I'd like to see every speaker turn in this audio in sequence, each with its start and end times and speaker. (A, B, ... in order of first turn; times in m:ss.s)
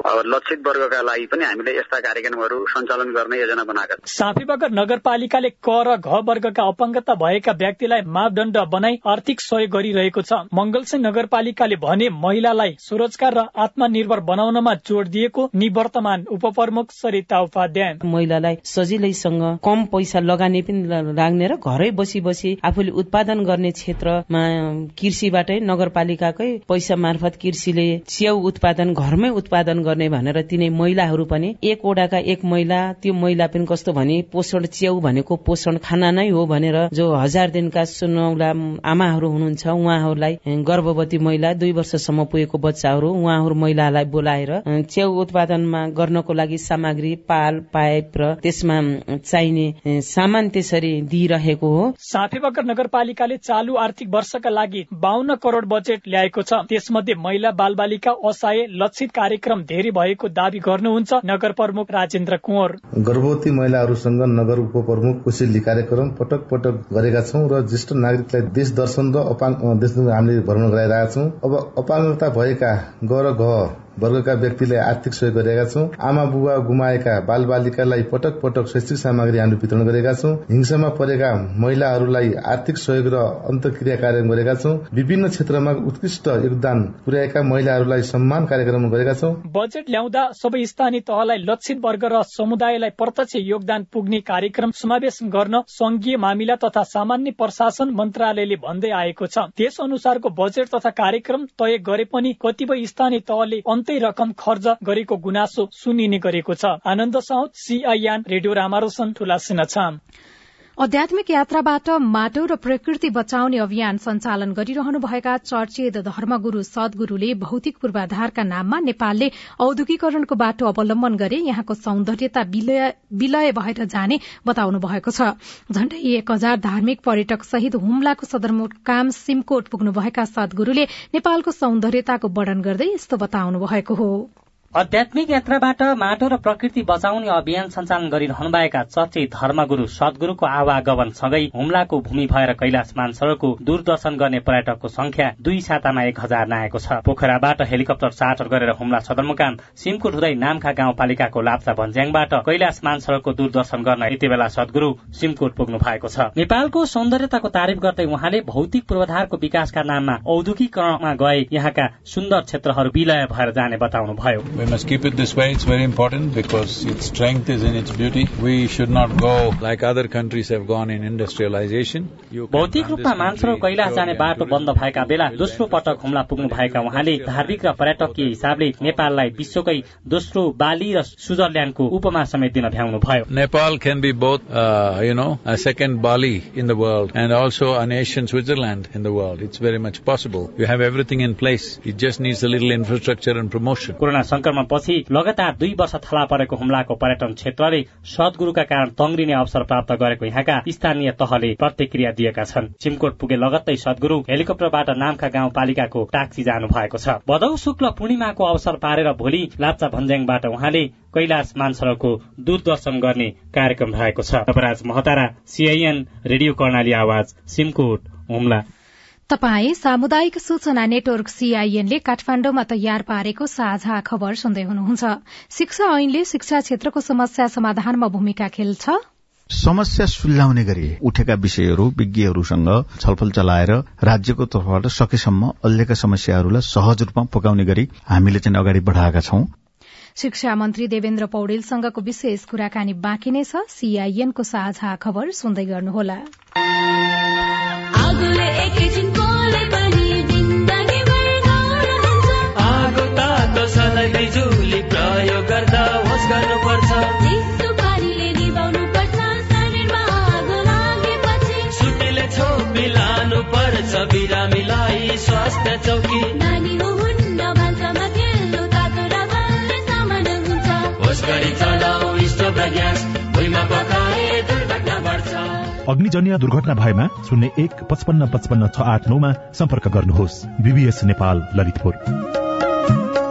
0:00.2-0:03.8 A
0:04.1-0:18.0 B
0:18.0-0:51.8 C
0:52.0-1:02.8 B
1:03.0-1:29.4 D
1:29.5-1:50.0 B
1:50.8-2:14.3 E
2:14.7-2:44.4 F
2:44.5-2:59.6 G
2:52.5-3:03.2 F
3:03.3-3:14.0 G
3:14.0-3:38.6 F
3:39.3-3:49.0 E
3:49.5-3:59.5 H
4:00.2-4:06.2 E
4:08.0-4:12.2 A
4:12.6-4:17.2 I
4:17.4-4:21.6 A
4:21.7-4:26.3 I
4:26.5-4:30.8 A
4:31.0-4:35.5 I
4:35.9-4:42.0 J